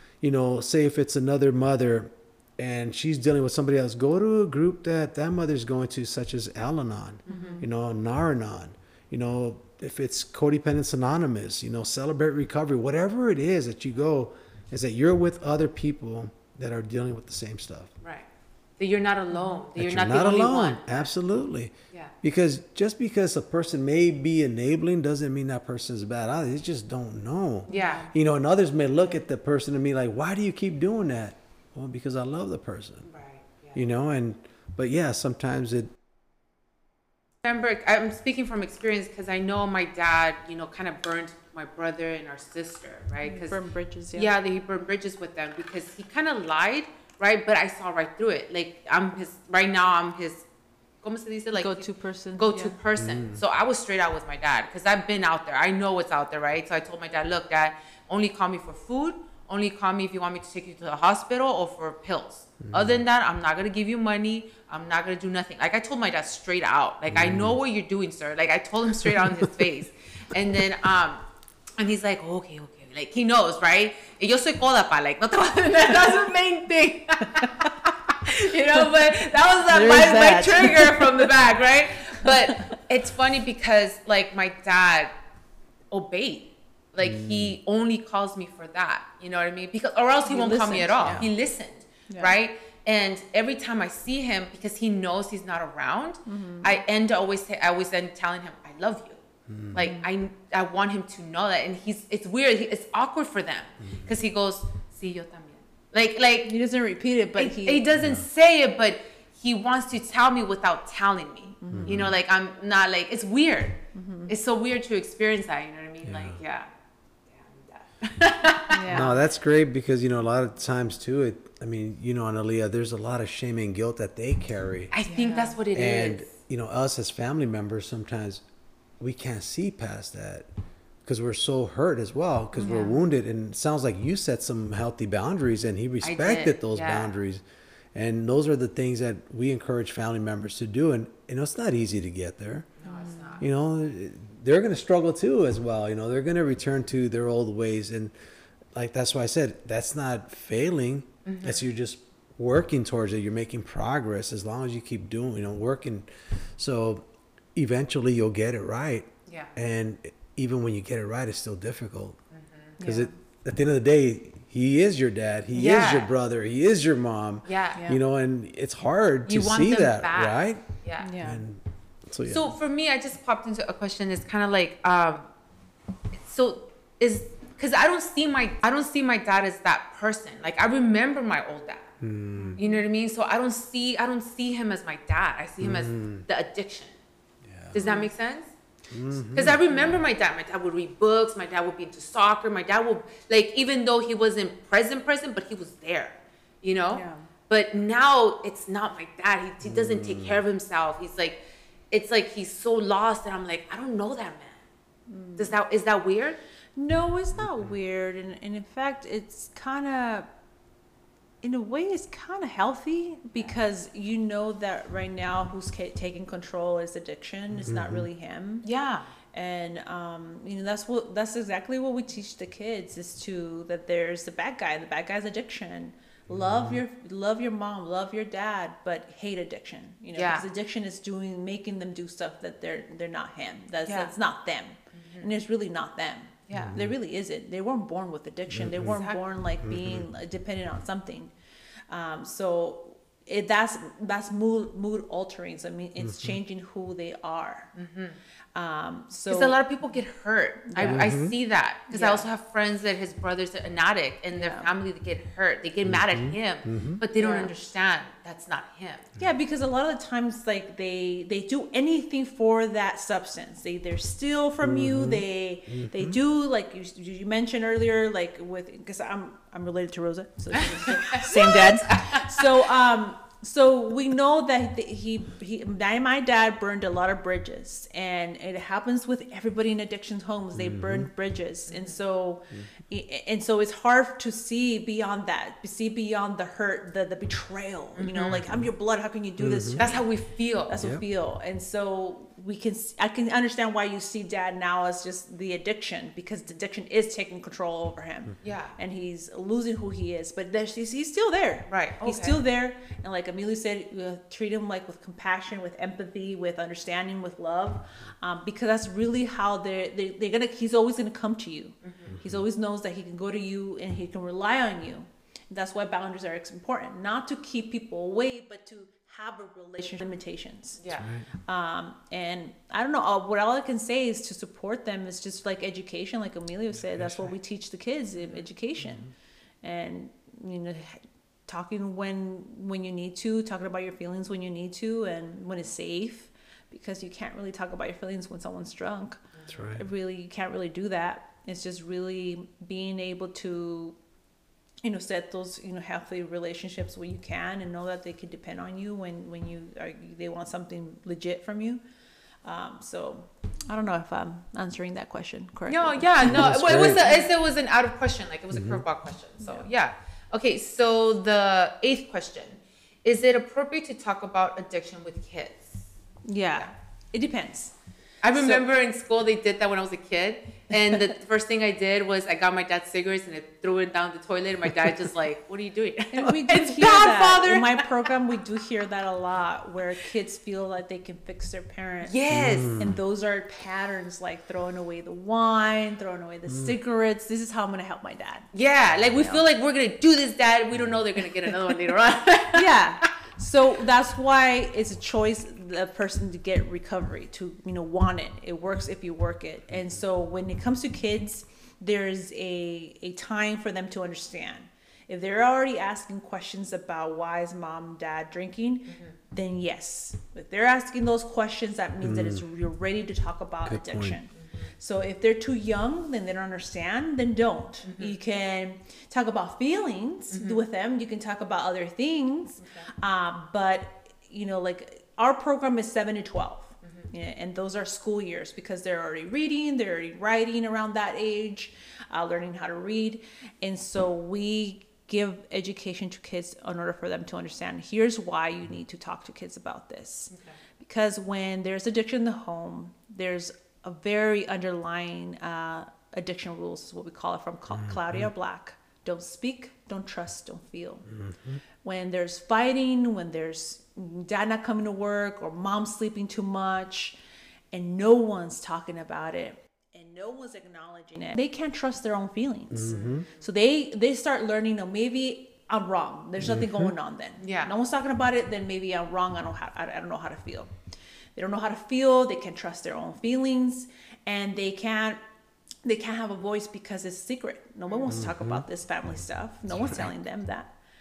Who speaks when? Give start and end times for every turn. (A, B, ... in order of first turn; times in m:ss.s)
0:00.2-0:17.9 A
0:07.3-0:07.6 B
0:07.3-0:07.6 C
0:18.0-0:18.3 B
0:18.8-0:21.1 B
0:19.3-0:19.6 C
0:19.8-0:33.1 A
0:27.7-0:28.1 B
0:27.7-0:28.1 C
0:33.0-0:33.8 B
0:33.7-0:35.9 A
0:37.4-0:43.6 B
0:43.2-0:44.4 C
0:44.1-0:50.4 B
0:51.0-0:51.8 B
0:51.5-0:52.8 C
0:52.4-1:11.2 B
0:53.0-0:53.4 A
1:02.6-1:03.0 A
1:07.1-1:07.6 A
1:09.0-1:09.4 A
1:11.8-1:25.1 B
1:17.3-1:17.7 C
1:18.8-1:21.4 C
1:22.1-1:22.7 C
1:25.9-1:46.5 B
1:27.0-1:27.6 A
1:30.2-1:31.3 C
1:32.1-1:32.4 C
1:36.3-1:36.8 C
1:39.5-1:39.8 A
1:39.8-1:40.1 C
1:43.9-1:44.1 A
1:46.4-1:47.8 C
1:47.4-1:56.7 B
1:47.9-1:48.2 A
1:51.6-1:52.1 C
1:51.7-1:52.1 A
1:53.9-1:54.3 C
1:56.0-1:56.4 A
1:57.3-1:59.1 B
1:58.7-1:59.2 C
1:58.9-2:04.9 A
2:04.9-2:06.3 B
2:05.1-2:05.6 C
2:05.7-2:08.4 A
2:09.0-2:10.5 A
2:11.0-2:17.4 A
2:12.6-2:13.0 B
2:12.6-2:12.9 C
2:16.0-2:17.2 B
2:17.9-2:22.7 A
2:22.8-2:23.5 B
2:22.9-2:23.3 C
2:23.4-2:28.1 A
2:28.7-2:42.2 A
2:31.2-2:31.6 B
2:39.3-2:39.5 B
2:42.3-2:42.8 B
2:42.8-2:43.1 C
2:42.8-2:50.7 A
2:45.5-2:46.1 B
2:47.4-2:47.8 B
2:47.8-2:48.0 C
2:49.2-2:51.1 B
2:51.0-2:51.4 C
2:51.2-2:52.5 A
2:52.2-2:55.3 B
2:56.1-3:01.9 B
3:02.0-3:02.6 A
3:02.4-3:02.7 C
3:02.6-3:07.0 B
3:05.6-3:06.2 A
3:07.5-3:07.8 A
3:07.7-3:08.5 B
3:07.8-3:08.1 C
3:08.9-3:09.6 A
3:09.3-3:21.4 B
3:16.9-3:17.3 C
3:19.6-3:20.4 A
3:21.9-3:24.6 B
3:25.1-3:25.6 C
3:25.4-3:26.4 B
3:26.8-3:30.3 C
3:27.4-3:27.8 A
3:31.4-3:38.6 C
3:37.6-3:38.1 A
3:38.6-3:39.0 B
3:39.3-4:01.3 C
3:46.3-3:46.8 A
3:50.1-3:50.5 B
3:53.8-3:54.1 B
3:54.9-3:55.3 B
3:56.5-3:56.8 B
3:56.5-3:56.9 A
3:58.5-3:59.0 A
3:58.8-3:59.2 B
3:59.6-4:00.1 A
4:01.9-4:07.7 C
4:06.0-4:06.4 A
4:07.8-4:08.2 B
4:08.5-4:09.6 C
4:09.3-4:19.1 B
4:10.7-4:11.1 C
4:10.8-4:11.4 A
4:11.9-4:12.3 C
4:14.3-4:14.7 C
4:15.8-4:17.0 A
4:17.2-4:17.5 C
4:19.2-4:50.0 C
4:24.6-4:26.2 A
4:30.6-4:32.5 B
4:40.5-4:41.1 A
4:41.7-4:42.0 B
4:48.0-4:48.4 B
4:49.4-4:49.8 A
4:49.8-4:50.9 B
4:50.7-5:29.1 C
4:50.8-4:51.0 A
4:58.4-4:58.8 B
5:01.7-5:02.4 B
5:11.8-5:12.1 B
5:12.1-5:12.4 A
5:20.8-5:21.1 B
5:20.9-5:21.3 A
5:26.8-5:27.3 A
5:28.2-5:28.5 B
5:29.6-5:44.0 C
5:39.5-5:39.8 A
5:44.8-5:51.8 C
5:52.4-5:57.1 C
5:55.7-6:05.8 B
5:56.2-5:57.1 A
5:58.5-5:58.8 A
5:59.4-5:59.7 C
6:06.2-6:07.7 C
6:08.2-6:18.1 B
6:08.3-6:08.6 C
6:16.1-6:28.5 C
6:22.0-6:22.8 B
6:22.3-6:23.0 A
6:26.5-6:26.7 A
6:28.5-6:32.7 B
6:29.1-6:29.4 C
6:32.5-7:31.1 C
6:52.0-6:52.4 A
6:53.6-6:54.2 A
6:54.4-6:54.7 B
6:57.8-6:58.1 B
7:00.3-7:00.6 B
7:02.6-7:02.9 B
7:20.3-7:20.6 B
7:27.7-7:28.3 A
7:31.1-7:31.6 A
7:31.8-7:37.1 C
7:37.7-7:50.7 C
7:42.7-7:43.2 A
7:42.8-7:43.4 B
7:46.4-7:46.9 A
7:47.4-7:47.7 B
7:51.4-7:55.2 C
7:55.8-8:00.7 C
7:57.9-7:58.2 B
7:58.1-7:58.6 A
7:59.7-8:00.1 A